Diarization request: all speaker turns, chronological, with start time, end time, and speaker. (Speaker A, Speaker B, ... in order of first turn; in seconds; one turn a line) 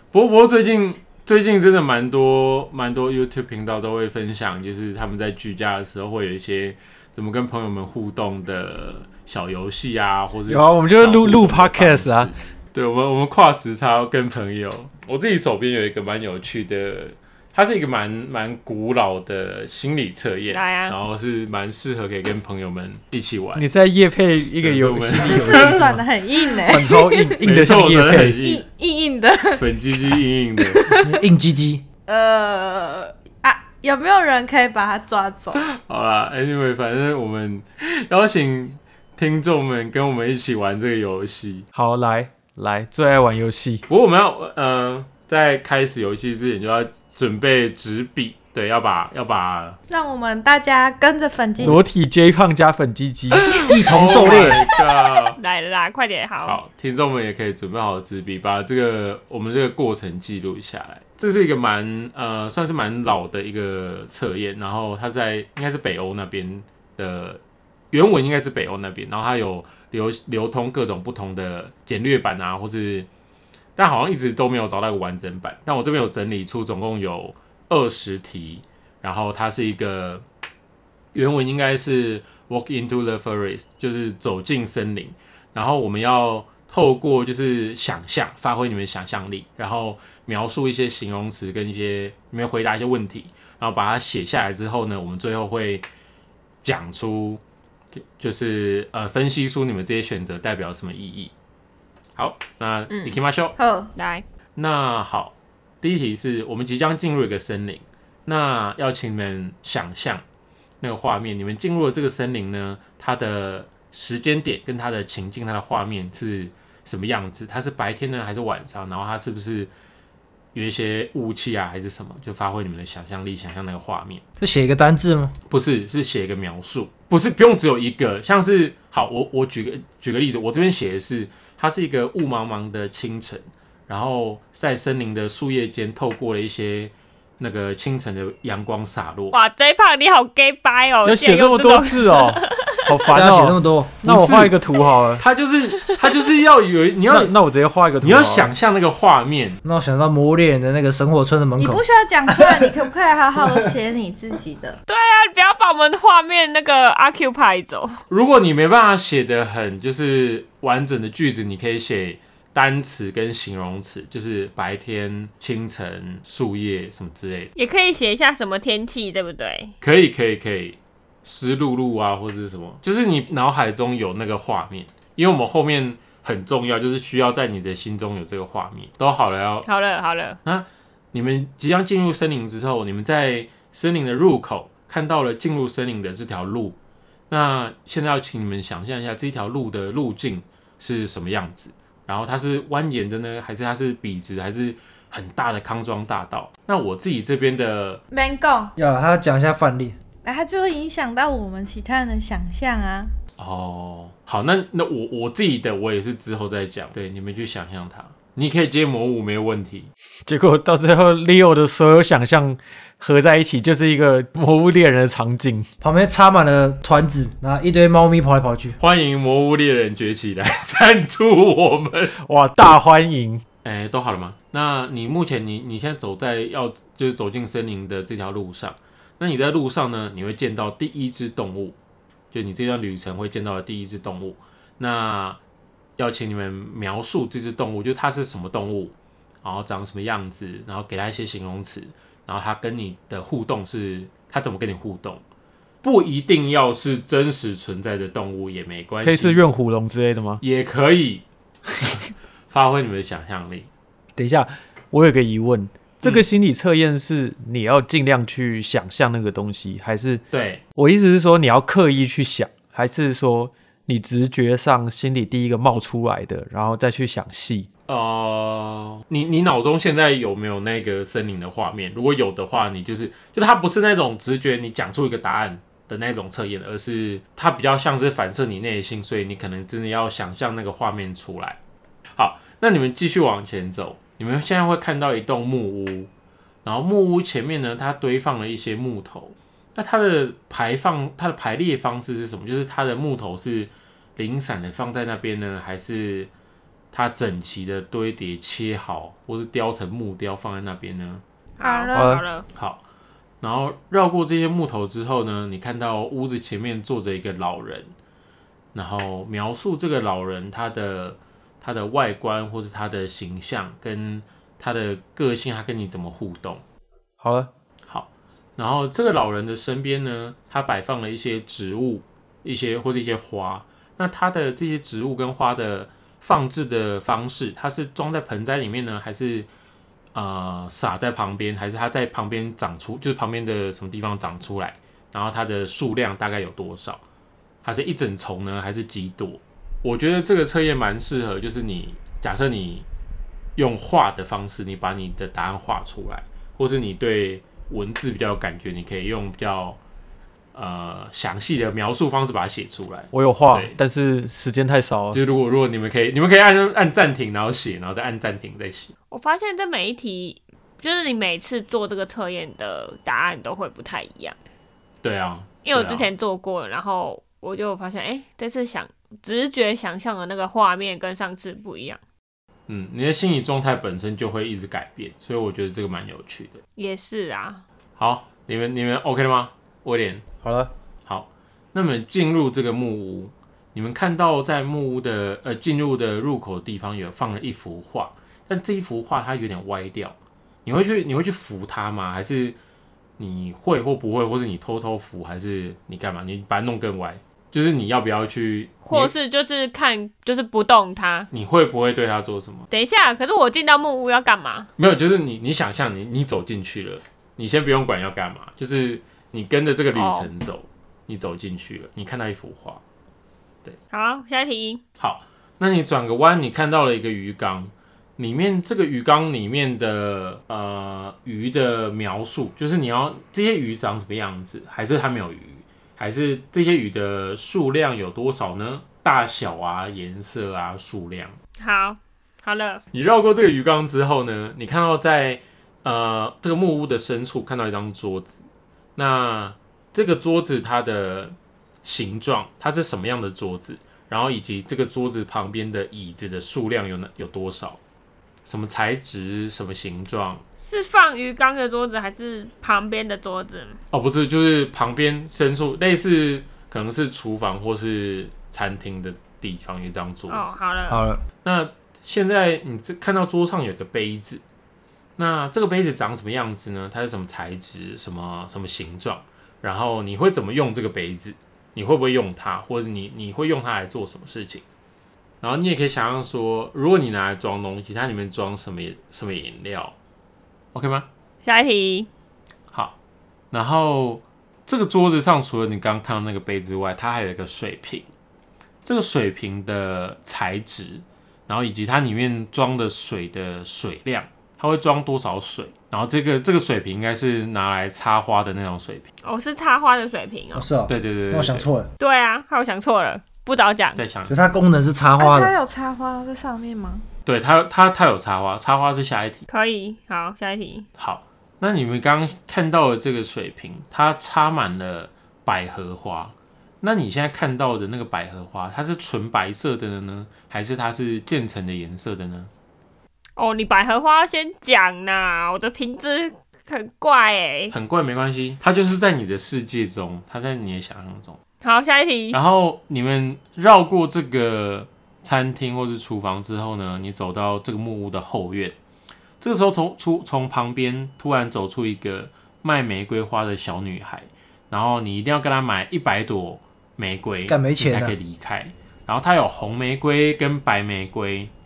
Speaker A: 0.1-23.6
Speaker B: 10.5-12.3
Speaker C: 20.5-20.9
Speaker B: 23.6-26.0
Speaker A: 24.6-25.9
Speaker D: 25.2-27.4
Speaker B: 26.5-28.4
Speaker A: 27.4-28.6
Speaker D: 28.4-29.6
Speaker A: 29.6-30.9
Speaker D: 30.6-31.1
Speaker E: 31.0-31.8
Speaker D: 32.1-35.6
Speaker A: 35.6-41.6
Speaker B: 41.7-43.8
Speaker A: 43.9-49.8
Speaker D: 49.9-51.8
Speaker B: 51.6-53.6
Speaker A: 53.5-55.4
Speaker E: 53.6-54.7
Speaker C: 55.4-56.6
Speaker A: 56.4-73.1
Speaker A: 73.8-80.2
Speaker A: 81.1-95.8
Speaker A: 96.6-97.4
Speaker A: 98.2-101.3
Speaker A: 102.2-103.5
Speaker C: 102.9-103.2
Speaker D: 103.6-103.9
Speaker C: 104.0-104.2
Speaker A: 104.5-110.2
Speaker A: 110.8-119.7
Speaker A: 120.5-124.2
Speaker E: 124.4-125.3
Speaker A: 125.5-139.4
Speaker C: 139.3-143.1
Speaker B: 141.0-145.2
Speaker E: 143.1-144.0
Speaker A: 144.1-144.5
Speaker A: 145.2-147.3
Speaker C: 145.9-146.1
Speaker B: 147.1-148.5
Speaker A: 148.0-149.6
Speaker E: 149.6-152.8
Speaker D: 151.6-154.8
Speaker C: 154.9-158.0
Speaker A: 158.1-167.5
Speaker C: 167.6-169.7
Speaker A: 169.8-179.7
Speaker C: 179.7-180.4
Speaker A: 180.4-186.8
Speaker A: 187.3-198.0
Speaker D: 198.1-198.7
Speaker E: 198.8-200.0
Speaker D: 200.2-203.1
Speaker A: 203.4-209.9
Speaker B: 210.2-215.7
Speaker E: 215.8-218.8
Speaker A: 218.8-222.1
Speaker B: 222.2-223.4
Speaker A: 223.6-231.8
Speaker A: 232.3-235.4
Speaker A: 236.0-245.2
Speaker A: 245.8-249.4
Speaker B: 249.0-250.4
Speaker A: 250.4-251.2
Speaker A: 252.5-253.7
Speaker B: 254.2-260.2
Speaker A: 260.3-260.6
Speaker B: 260.7-267.7
Speaker A: 267.9-281.6
Speaker A: 282.2-286.1
Speaker A: 286.6-296.3
Speaker A: 296.9-301.2
Speaker C: 301.6-302.4
Speaker D: 301.6-302.1
Speaker B: 301.9-302.2
Speaker A: 302.5-302.8
Speaker A: 303.4-307.9
Speaker A: 308.7-316.6
Speaker B: 317.2-317.5
Speaker A: 317.9-329.5
Speaker A: 330.1-337.0
Speaker A: 337.6-342.9
Speaker A: 343.6-349.8
Speaker A: 350.5-353.7
Speaker B: 353.1-355.2
Speaker A: 355.1-358.9
Speaker C: 359.1-364.4
Speaker A: 365.0-366.1
Speaker C: 365.6-372.0
Speaker A: 372.7-376.6
Speaker C: 376.8-377.6
Speaker A: 378.0-380.2
Speaker B: 380.4-380.7
Speaker A: 381.1-392.6
Speaker A: 393.2-399.1
Speaker C: 398.8-401.3
Speaker A: 401.3-402.7
Speaker C: 402.7-404.7
Speaker A: 404.8-412.8
Speaker C: 409.9-410.3
Speaker C: 413.9-414.8
Speaker A: 415.0-431.3
Speaker C: 431.6-432.8
Speaker A: 432.9-438.4
Speaker A: 438.9-447.8
Speaker A: 448.4-450.4
Speaker C: 450.6-453.8
Speaker A: 453.9-460.5
Speaker C: 460.3-461.0
Speaker E: 460.9-461.2
Speaker A: 461.4-464.4
Speaker A: 465.2-474.6
Speaker A: 475.4-479.9
Speaker A: 480.7-481.1
Speaker C: 481.4-482.1
Speaker A: 483.5-488.1
Speaker A: 488.8-499.1
Speaker C: 499.2-500.7
Speaker E: 500.5-501.9
Speaker A: 500.9-501.7
Speaker C: 502.0-504.0
Speaker A: 503.9-504.4
Speaker E: 504.3-505.5
Speaker D: 505.2-507.0
Speaker A: 507.2-509.5
Speaker C: 509.5-510.9
Speaker A: 511.0-522.5
Speaker C: 523.4-527.7
Speaker A: 527.7-531.4
Speaker C: 531.6-532.4
Speaker A: 532.3-538.7
Speaker A: 539.4-551.5
Speaker E: 547.5-548.1